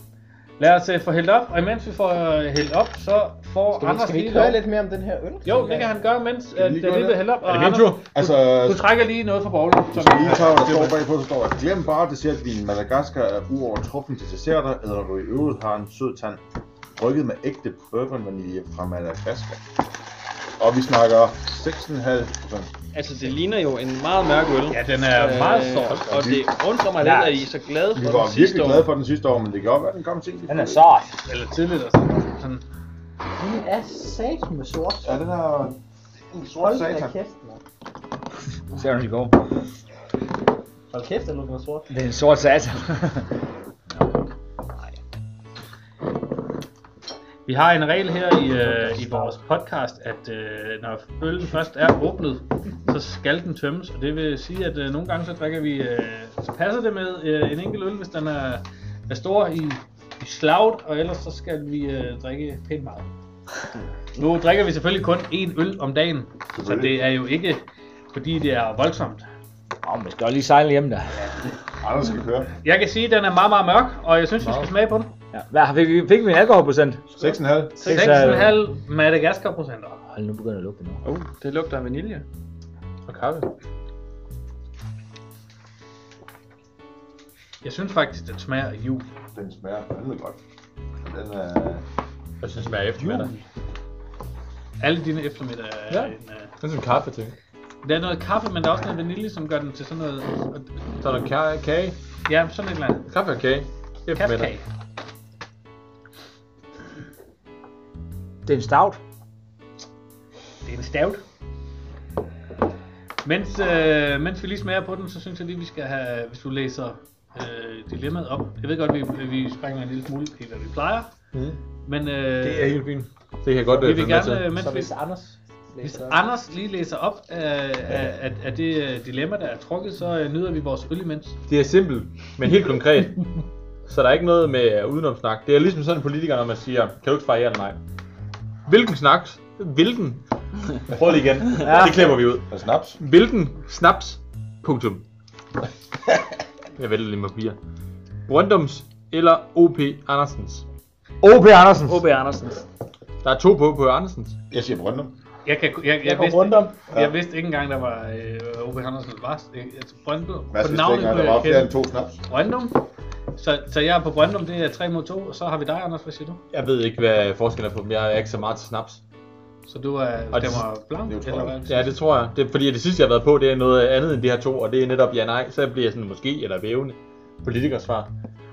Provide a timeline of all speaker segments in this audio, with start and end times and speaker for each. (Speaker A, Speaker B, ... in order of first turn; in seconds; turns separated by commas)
Speaker A: 0.6-4.6, Speaker B: 3.8-5.9, Speaker A: 5.4-11.0, Speaker C: 6.5-7.2, Speaker D: 7.4-8.0, Speaker C: 8.1-8.9, Speaker C: 9.9-16.4, Speaker C: 17.0-19.6, Speaker C: 20.6-22.7, Speaker E: 22.9-28.9, Speaker A: 24.7-26.1, Speaker D: 25.9-26.4, Speaker F: 27.0-27.5, Speaker C: 27.9-30.9, Speaker F: 30.5-31.1, Speaker A: 31.2-32.6, Speaker B: 33.4-35.3, Speaker C: 35.0-35.8, Speaker C: 36.3-37.2, Speaker B: 36.6-37.6, Speaker F: 38.7-39.4, Speaker B: 40.9-41.9, Speaker F: 41.9-43.3, Speaker A: 47.4-63.1, Speaker A: 64.2-69.3, Speaker C: 66.5-67.0, Speaker F: 69.8-71.1, Speaker C: 71.8-72.5, Speaker A: 72.6-75.1, Speaker D: 74.4-74.7, Speaker F: 75.3-77.1, Speaker C: 77.1-77.9, Speaker A: 77.8-80.0, Speaker F: 77.8-78.6, Speaker F: 80.1-81.0, Speaker E: 81.0-82.2, Speaker D: 83.1-83.5, Speaker A: 87.6-89.1, Speaker C: 89.3-90.4, Speaker C: 91.0-91.8, Speaker D: 92.4-93.3, Speaker A: 94.8-96.5, Speaker D: 95.9-97.4, Speaker A: 97.8-100.8, Speaker D: 101.0-102.0, Speaker A: 102.2-103.1, Speaker D: 103.1-104.5, Speaker A: 104.2-104.7, Speaker F: 108.5-109.0, Speaker A: 110.6-111.2, Speaker A: 113.2-121.1, Speaker A: 121.8-122.8, Speaker D: 122.4-124.5, Speaker A: 123.7-124.9, Speaker B: 124.5-126.2, Speaker A: 125.8-131.4, Speaker D: 131.5-133.3, Speaker D: 133.9-137.8, Speaker D: 138.7-140.2, Speaker D: 140.8-142.5, Speaker F: 141.6-142.1, Speaker C: 142.5-143.0, Speaker D: 143.0-145.0, Speaker D: 146.8-147.6, Speaker D: 148.3-150.7, Speaker F: 151.2-152.0, Speaker E: 151.9-152.6, Speaker D: 153.2-154.4, Speaker C: 154.5-155.1, Speaker A: 155.4-161.7, Speaker E: 156.1-156.7, Speaker C: 160.5-162.2, Speaker A: 162.3-162.8, Speaker A: 163.3-166.4, Speaker D: 166.5-169.0, Speaker A: 169.7-171.9, Speaker D: 170.3-170.6, Speaker C: 171.1-171.6, Speaker D: 171.7-178.1